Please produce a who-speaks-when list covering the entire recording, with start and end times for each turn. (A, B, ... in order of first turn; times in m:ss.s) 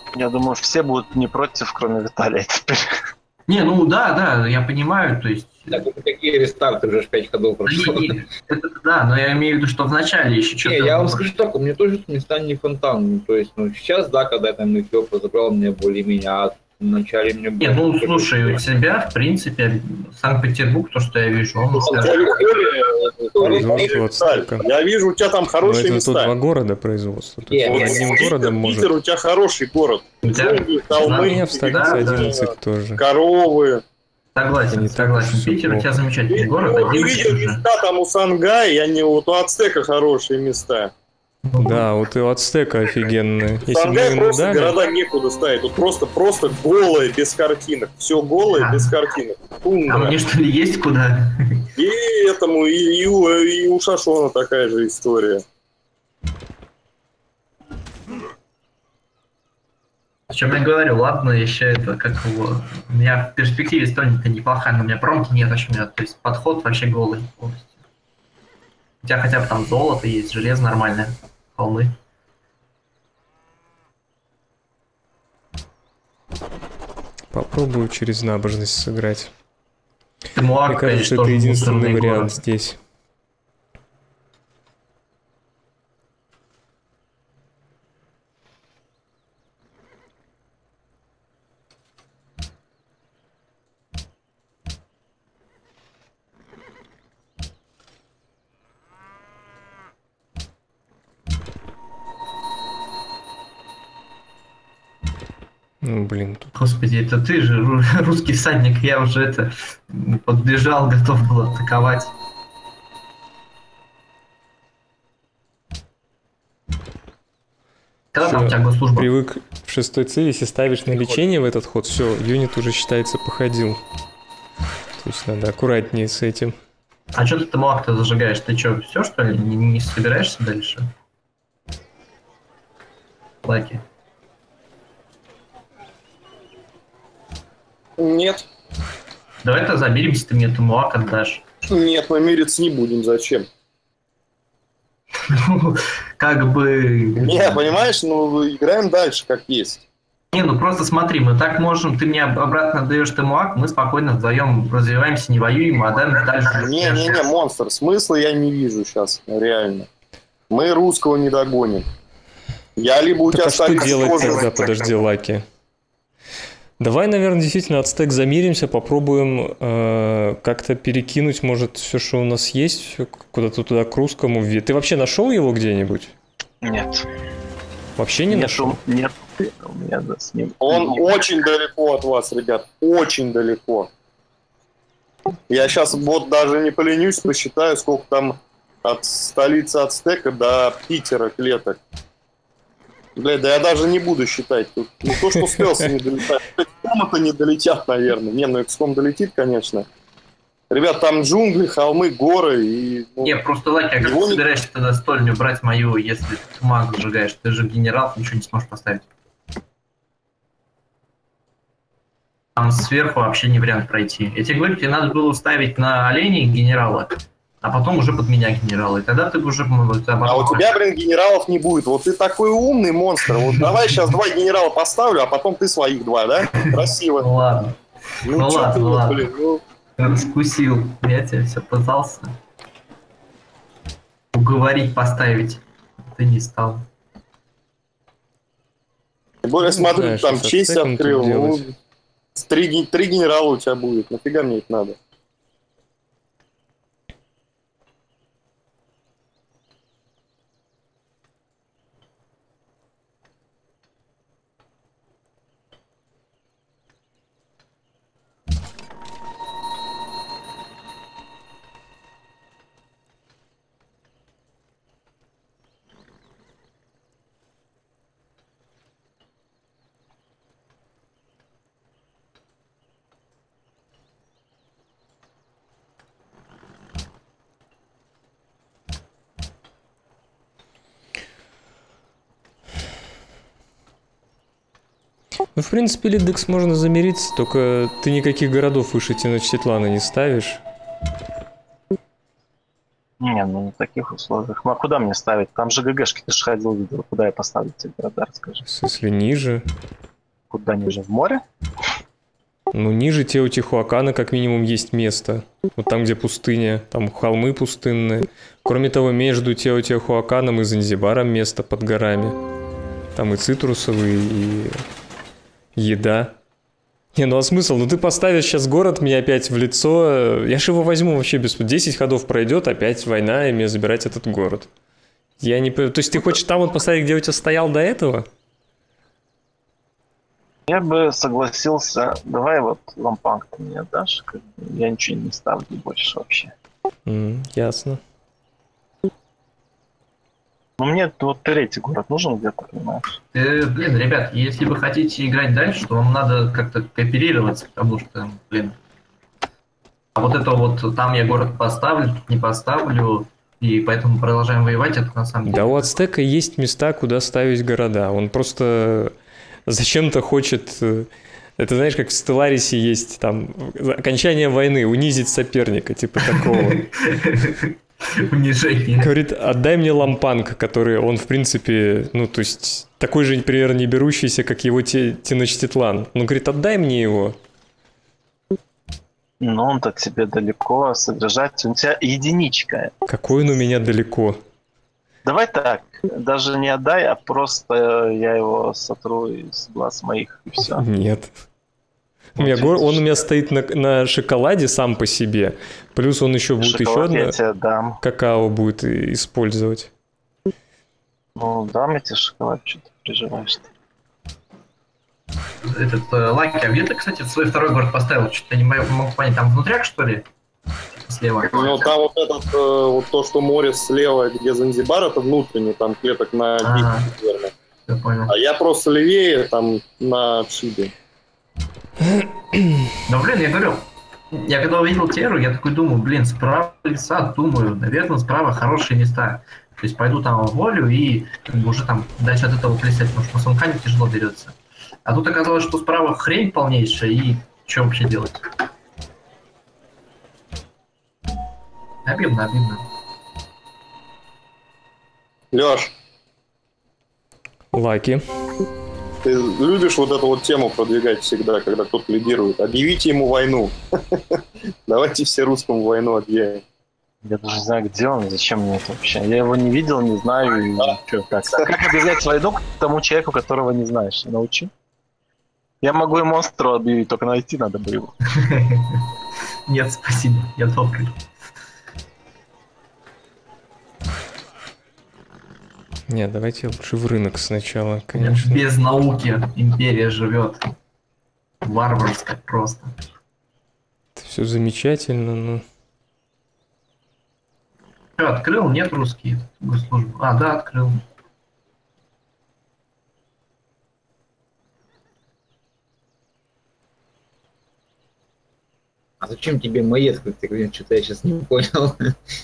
0:00.1-0:02.9 A
0:03.5-0:05.7 B
0:05.7-0:08.1 C
0:07.6-0:11.4 B
0:10.6-0:18.6 C
0:17.6-0:22.3 B
0:21.8-0:26.3 D
0:23.4-0:23.9 C
0:23.4-0:24.7 E
0:25.6-0:28.9 E
0:27.5-0:28.1 C
0:27.6-0:32.5 D
0:30.2-0:32.4 B
0:31.0-0:33.0 E
0:33.0-0:33.8 D
0:34.4-0:37.6 B
0:34.7-0:36.0 E
0:36.3-0:40.9 D
0:41.5-0:41.9 B
0:41.6-0:44.8 E
0:43.7-0:50.2 D
0:48.5-0:49.0 B
0:49.9-0:51.7 B
0:51.8-0:55.4 D
1:00.3-1:07.7 B
1:09.0-1:11.9 B
1:17.3-1:19.3 E
1:20.4-1:22.4 B
1:20.7-1:22.8 E
1:45.8-1:46.5 E
1:46.6-1:52.1 B
1:58.1-1:59.1 B
1:58.2-2:03.8 E
2:05.0-2:06.6 E
2:07.1-2:10.9 B
2:13.4-2:13.8 B
2:18.0-2:18.4 D
2:19.4-2:21.4 B
2:21.7-2:23.5 D
2:25.2-2:27.7 B
2:27.2-2:29.8 D
2:30.3-2:37.2 B
2:36.3-2:39.9 D
2:40.5-2:41.9 D
2:42.8-2:44.7 D
2:43.3-2:45.4 E
2:46.8-2:56.2 E
2:56.6-2:57.1 A
2:58.0-2:58.8 E
2:58.3-3:01.2 A
3:00.6-3:03.9 D
3:05.5-3:11.8 D
3:13.2-3:19.9 D
3:20.7-3:23.4 D
3:23.2-3:29.1 B
3:24.0-3:24.4 D
3:32.6-3:40.8 B
3:40.2-3:47.3 D
3:46.5-3:49.3 B
3:48.2-3:49.6 D
3:50.0-3:52.3 B
3:54.3-3:55.6 B
3:56.1-3:56.9 B
3:59.4-4:01.7 D
3:59.6-4:01.7 E
4:02.4-4:05.0 D
4:45.6-4:50.6 E
4:53.2-4:58.6 A
4:58.6-4:59.6 E
5:00.5-5:01.4 A
5:02.7-5:12.4 E
5:13.2-5:14.8 E
5:15.8-5:16.4 E
5:17.2-5:24.7 E
5:25.4-5:28.3 E
5:30.7-5:36.5 A
5:37.1-5:38.0 E
5:40.8-5:43.2 A
5:43.3-5:48.8 B
5:50.2-5:55.9 B
5:55.5-5:59.1 E
5:59.7-6:06.9 E
6:06.3-6:09.1 B
6:09.0-6:17.4 E
6:19.4-6:22.9 A
6:23.1-6:24.4 E
6:25.2-6:30.8 A
6:30.8-6:31.3 E
6:32.4-6:37.4 E
6:32.4-6:33.2 A
6:36.6-6:38.0 A
6:38.0-6:39.9 E
6:41.4-6:43.7 A
6:45.7-6:50.2 B
6:50.9-6:51.9 B
6:51.5-6:57.5 D
6:56.6-6:57.1 B
6:57.9-6:58.3 B
6:58.3-7:00.9 D
7:02.1-7:02.9 E
7:03.1-7:18.4 B
7:22.0-7:22.8 B
7:25.5-7:25.9 D
7:27.7-7:28.2 E
7:29.2-7:36.6 D
7:37.2-7:44.7 A
7:45.8-7:48.1 A
7:48.3-7:49.0 B
7:49.7-7:51.2 B
7:56.1-7:58.7 E
7:58.2-8:00.6 B
8:01.6-8:03.0 B
8:04.2-8:05.6 E
8:08.2-8:11.0 B
8:19.2-8:22.1 C